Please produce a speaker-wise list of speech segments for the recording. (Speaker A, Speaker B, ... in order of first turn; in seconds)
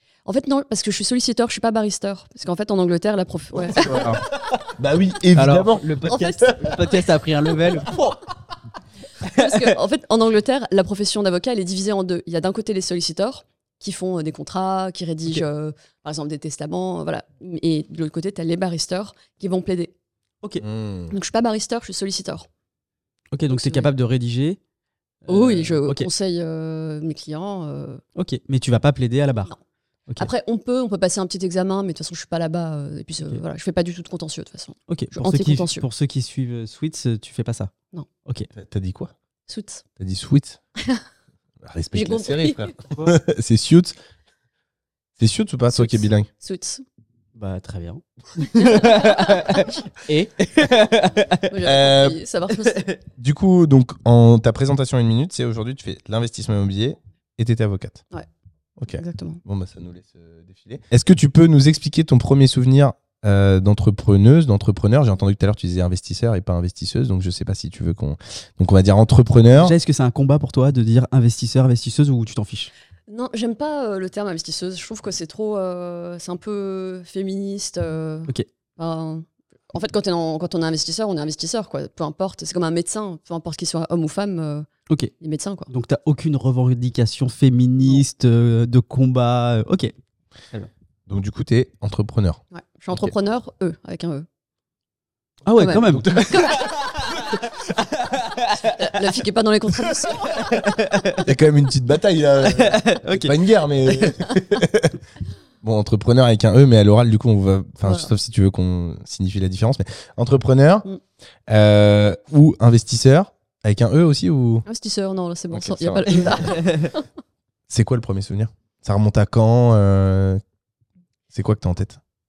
Speaker A: 0.2-4.0, 6.1-6.4, 9.3-19.9, 21.1-22.5, 23.5-23.9, 25.3-28.0, 30.2-35.8, 39.5-39.8, 41.9-42.7, 45.7-46.8, 48.5-49.7, 51.5-52.9, 58.9-59.4, 73.1-84.7, 85.2-85.7, 92.5-94.2, 95.5-96.6, 98.6-100.5, 107.8-108.1, 114.7-117.0
Speaker B: 3.7-6.9, 7.8-8.2, 20.6-21.1, 38.5-39.1, 40.0-40.6, 41.6-43.9, 45.2-46.3, 51.6-52.2, 53.2-58.0, 58.8-69.8, 91.1-92.4, 95.8-96.6, 101.2-105.0, 105.6-110.8, 111.5-114.7, 115.5-116.6, 117.7-120.4, 121.3-122.0
Speaker C: 3.8-4.2, 5.3-8.0, 9.2-9.7, 23.3-24.6, 25.2-26.1, 28.1-29.5, 34.9-37.7, 47.4-51.5, 52.5-53.0, 69.5-72.7, 85.7-89.9, 95.5-99.0, 100.1-101.2, 102.4-104.4